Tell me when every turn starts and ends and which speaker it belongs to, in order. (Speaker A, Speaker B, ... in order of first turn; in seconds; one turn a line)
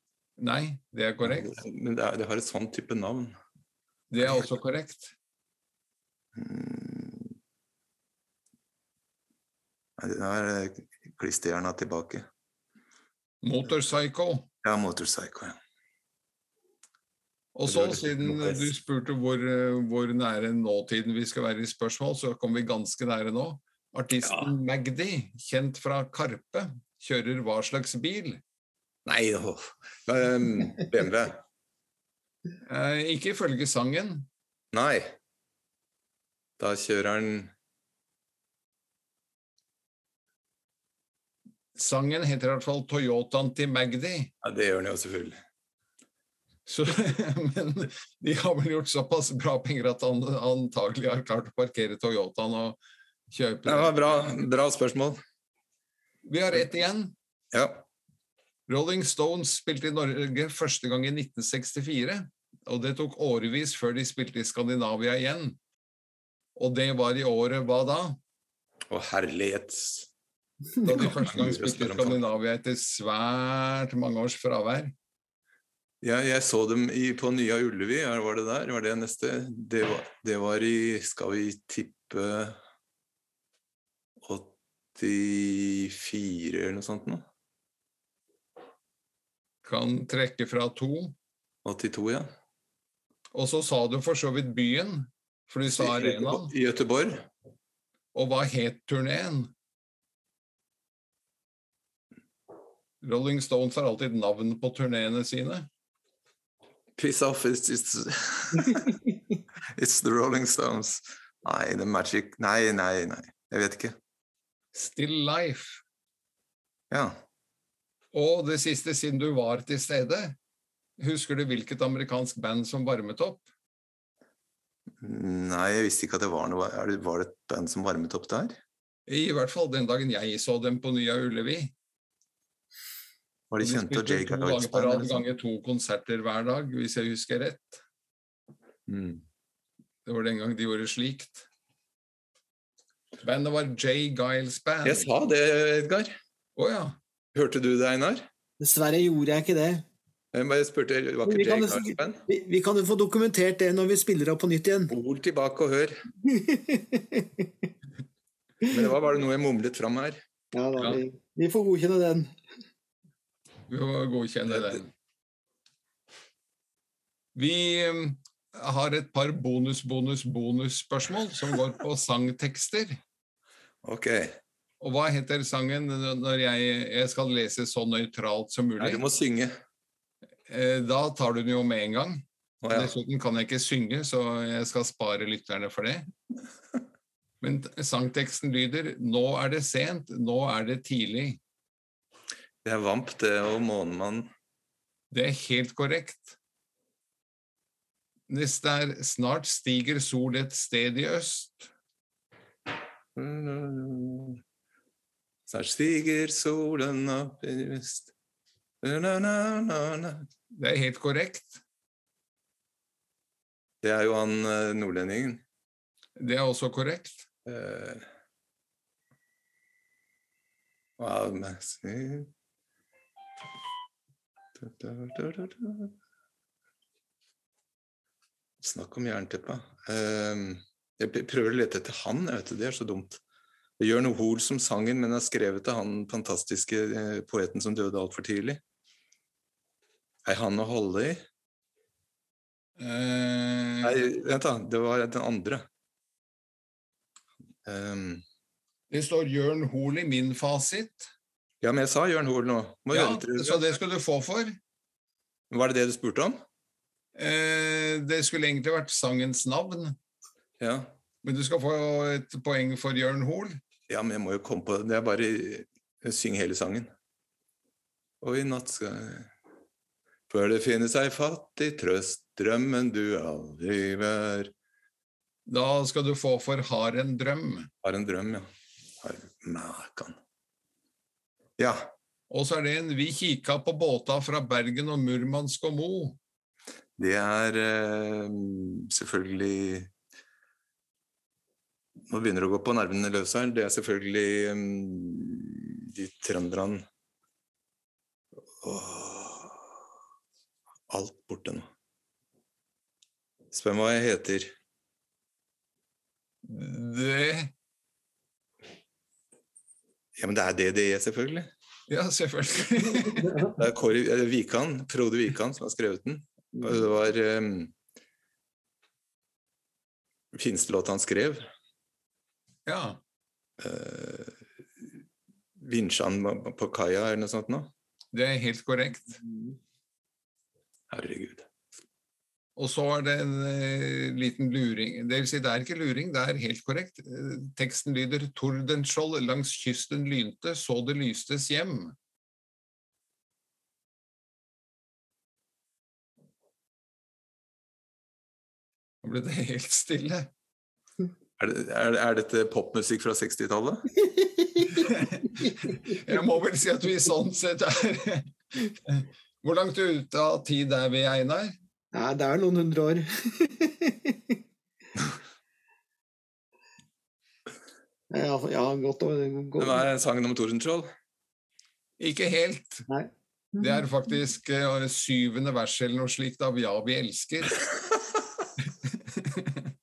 Speaker A: 0.4-1.6
Speaker B: 1.2-3.4
Speaker A: 4.1-5.1
Speaker B: 4.2-4.5
Speaker B: 6.3-7.3
Speaker B: 10.0-12.2
Speaker A: 13.4-14.5
Speaker B: 14.6-15.6
Speaker A: 17.5-28.4
Speaker B: 17.7-18.7
Speaker B: 24.2-24.5
Speaker B: 29.1-31.4
Speaker A: 32.6-34.3
Speaker B: 34.7-35.1
Speaker B: 36.6-37.5
Speaker A: 41.8-44.3
Speaker B: 44.4-45.4
Speaker A: 46.6-52.8
Speaker A: 53.3-54.0
Speaker B: 53.6-55.2
Speaker A: 56.2-57.1
Speaker B: 57.5-57.8
Speaker A: 58.7-65.6
Speaker A: 66.5-68.2
Speaker B: 68.9-70.1
Speaker A: 70.8-74.9
Speaker B: 70.8-72.2
Speaker B: 76.0-82.6
Speaker B: 84.2-87.2
Speaker A: 89.6-91.1
Speaker B: 91.6-92.3
Speaker A: 93.3-96.5
Speaker B: 95.7-97.3
Speaker A: 98.1-99.5
Speaker A: 103.0-105.7
Speaker B: 107.0-109.0
Speaker B: 109.8-113.9
Speaker A: 114.7-115.8
Speaker B: 116.9-117.2
Speaker A: 118.1-120.4
Speaker A: 121.0-123.5
Speaker B: 125.0-128.6
Speaker A: 129.1-131.7
Speaker B: 133.5-135.2
Speaker A: 133.6-137.8
Speaker B: 138.9-139.2
Speaker A: 140.1-141.4
Speaker A: 143.2-145.1
Speaker B: 144.8-146.1
Speaker A: 146.6-147.0
Speaker B: 147.3-148.3
Speaker C: 148.6-149.8
Speaker B: 150.3-152.2
Speaker C: 151.2-154.9
Speaker B: 154.9-156.0
Speaker C: 156.2-157.7
Speaker B: 158.7-160.2
Speaker C: 160.5-162.3
Speaker A: 163.7-164.9
Speaker A: 167.3-173.0
Speaker B: 173.8-174.4
Speaker A: 174.8-179.0
Speaker B: 178.8-179.5
Speaker A: 180.5-186.1
Speaker B: 182.6-182.9
Speaker A: 187.4-191.4
Speaker B: 192.6-194.3
Speaker A: 195.1-196.3
Speaker A: 198.3-201.7
Speaker B: 203.1-204.4
Speaker B: 205.5-208.1
Speaker B: 208.8-210.3
Speaker A: 210.5-211.6
Speaker B: 213.8-215.4
Speaker A: 216.2-217.2
Speaker B: 217.4-218.0
Speaker B: 221.0-222.3
Speaker B: 224.6-225.9
Speaker B: 228.6-233.2
Speaker B: 233.8-238.6
Speaker B: 240.2-241.2
Speaker A: 242.8-244.0
Speaker B: 243.8-245.6
Speaker B: 247.6-248.2
Speaker A: 248.9-251.1
Speaker B: 251.6-253.8
Speaker A: 252.9-254.6
Speaker B: 255.5-256.4
Speaker A: 257.1-259.9
Speaker B: 260.6-260.9
Speaker A: 261.2-263.6
Speaker B: 263.9-266.9
Speaker B: 268.2-269.3
Speaker B: 270.3-274.5
Speaker A: 275.5-277.7
Speaker B: 277.8-278.5
Speaker B: 279.0-280.2
Speaker B: 281.6-281.9
Speaker A: 282.3-286.2
Speaker B: 287.0-289.9
Speaker B: 292.1-296.8
Speaker B: 298.6-299.6
Speaker B: 300.9-301.7
Speaker B: 303.5-304.5
Speaker A: 306.4-307.5
Speaker B: 310.2-311.5
Speaker A: 311.9-313.5
Speaker B: 313.4-317.7
Speaker B: 320.3-321.4
Speaker A: 322.6-323.0
Speaker B: 323.6-324.9
Speaker B: 325.6-327.7
Speaker A: 328.1-329.2
Speaker B: 330.9-331.5
Speaker A: 332.6-341.9
Speaker A: 349.0-350.3
Speaker B: 351.4-353.9
Speaker A: 354.7-361.5
Speaker C: 361.9-364.4
Speaker C: 368.1-369.9
Speaker B: 369.6-370.9
Speaker A: 372.0-372.9
Speaker C: 372.9-373.9
Speaker A: 373.6-377.6
Speaker A: 378.8-379.7